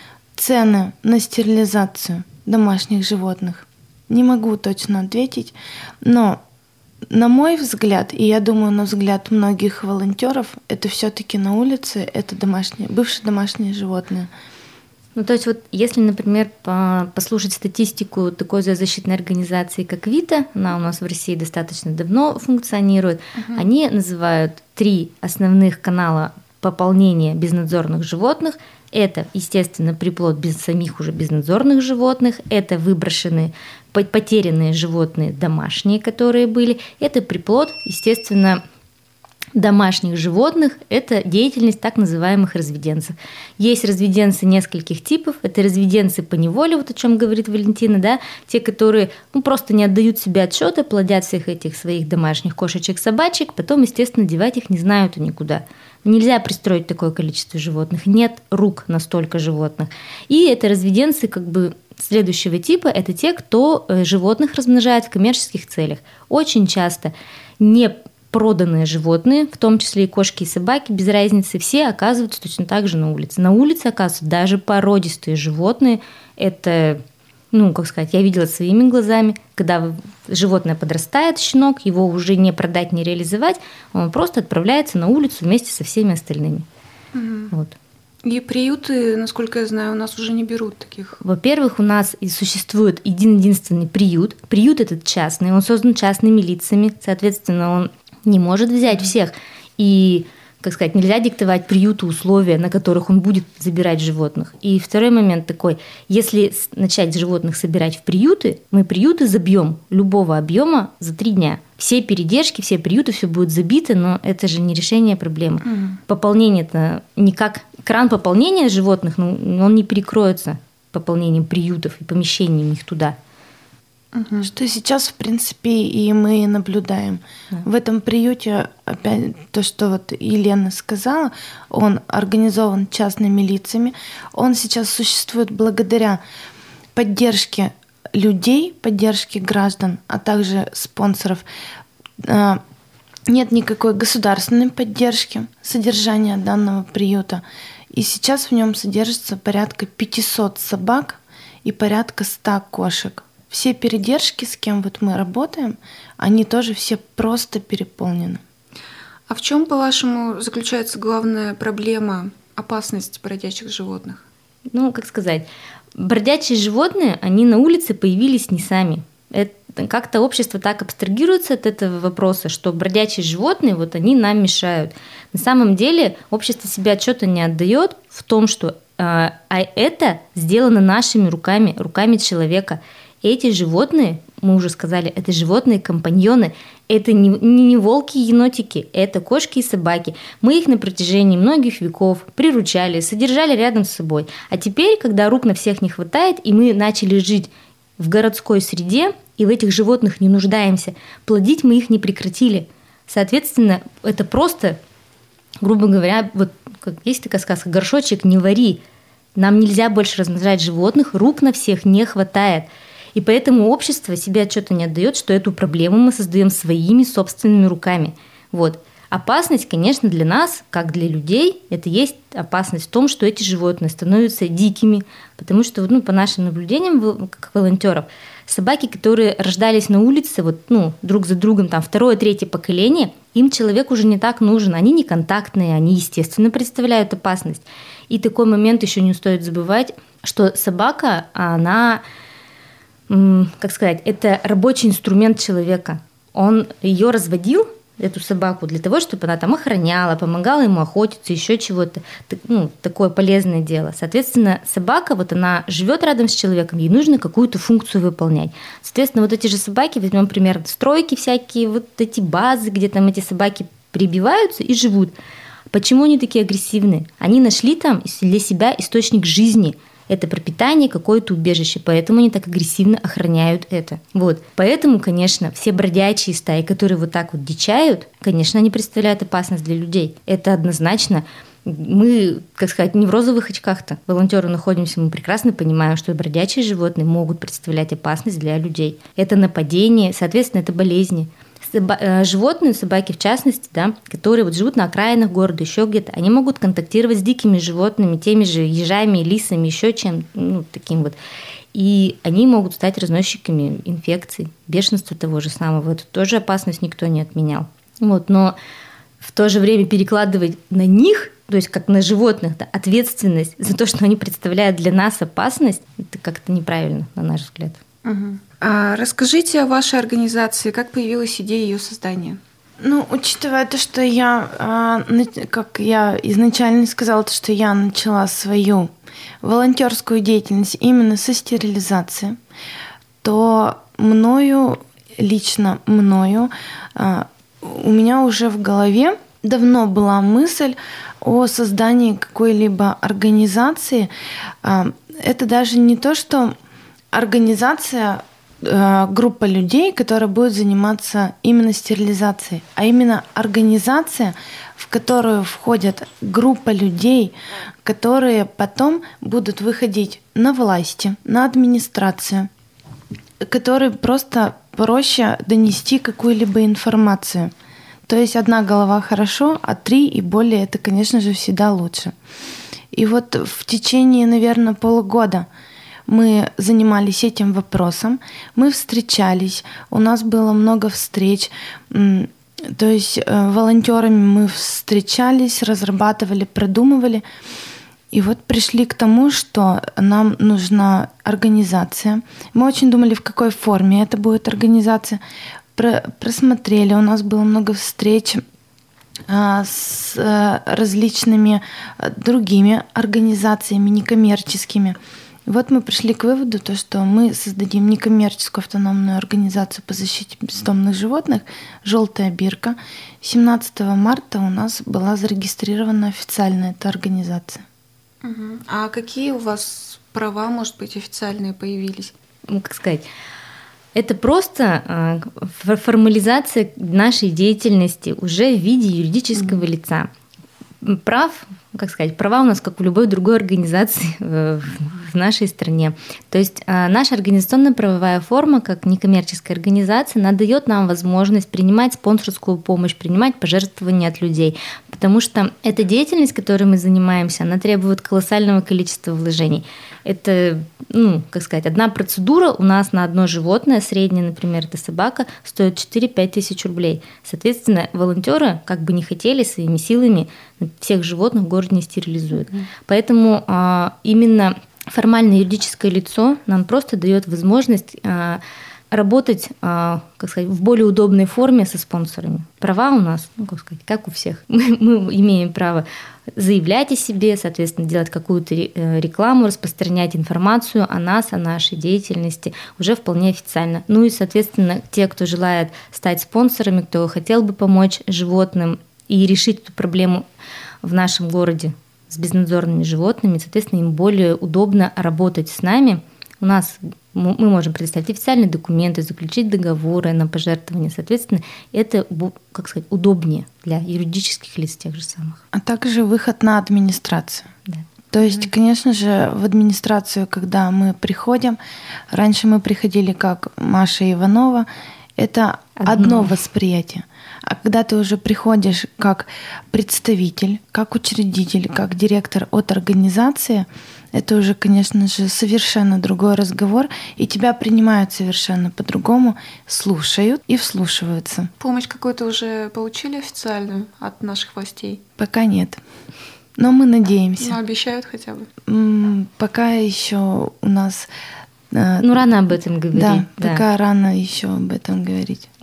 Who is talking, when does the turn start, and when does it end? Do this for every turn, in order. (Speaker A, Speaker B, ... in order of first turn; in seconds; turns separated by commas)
Speaker A: 0.4-6.4, Speaker A: 7.1-14.3, Speaker B: 15.2-38.6, Speaker C: 23.4-23.6, Speaker B: 39.5-86.7, Speaker C: 87.1-87.5, Speaker B: 87.5-87.8, Speaker C: 88.2-91.2, Speaker B: 91.2-123.2, Speaker C: 115.6-116.0, Speaker C: 124.1-124.5, Speaker A: 124.4-136.2, Speaker A: 136.9-141.4, Speaker A: 142.2-142.6, Speaker A: 143.3-158.4, Speaker C: 159.3-164.2, Speaker B: 164.7-204.8, Speaker B: 205.6-208.8, Speaker B: 209.4-242.0, Speaker B: 243.1-265.1, Speaker B: 265.7-301.2, Speaker B: 301.7-308.6, Speaker B: 309.2-317.8, Speaker C: 318.0-322.4, Speaker A: 322.8-332.4, Speaker A: 333.2-344.1, Speaker A: 344.6-346.6, Speaker A: 347.1-362.5, Speaker A: 363.4-367.5, Speaker A: 368.1-372.1, Speaker A: 372.9-375.5, Speaker A: 376.1-387.2, Speaker A: 388.1-395.2, Speaker A: 395.8-398.4, Speaker A: 399.3-417.6, Speaker C: 418.2-422.1, Speaker B: 422.5-423.0, Speaker B: 423.9-430.1, Speaker B: 430.8-490.2, Speaker B: 490.8-505.4, Speaker A: 505.5-507.5, Speaker A: 508.1-511.6, Speaker A: 512.1-531.5, Speaker B: 515.8-516.3, Speaker C: 531.6-535.0, Speaker A: 535.2-535.8, Speaker A: 536.6-537.6, Speaker C: 537.4-538.5, Speaker A: 538.7-541.1, Speaker A: 541.7-542.2, Speaker B: 542.0-543.6, Speaker A: 542.9-545.5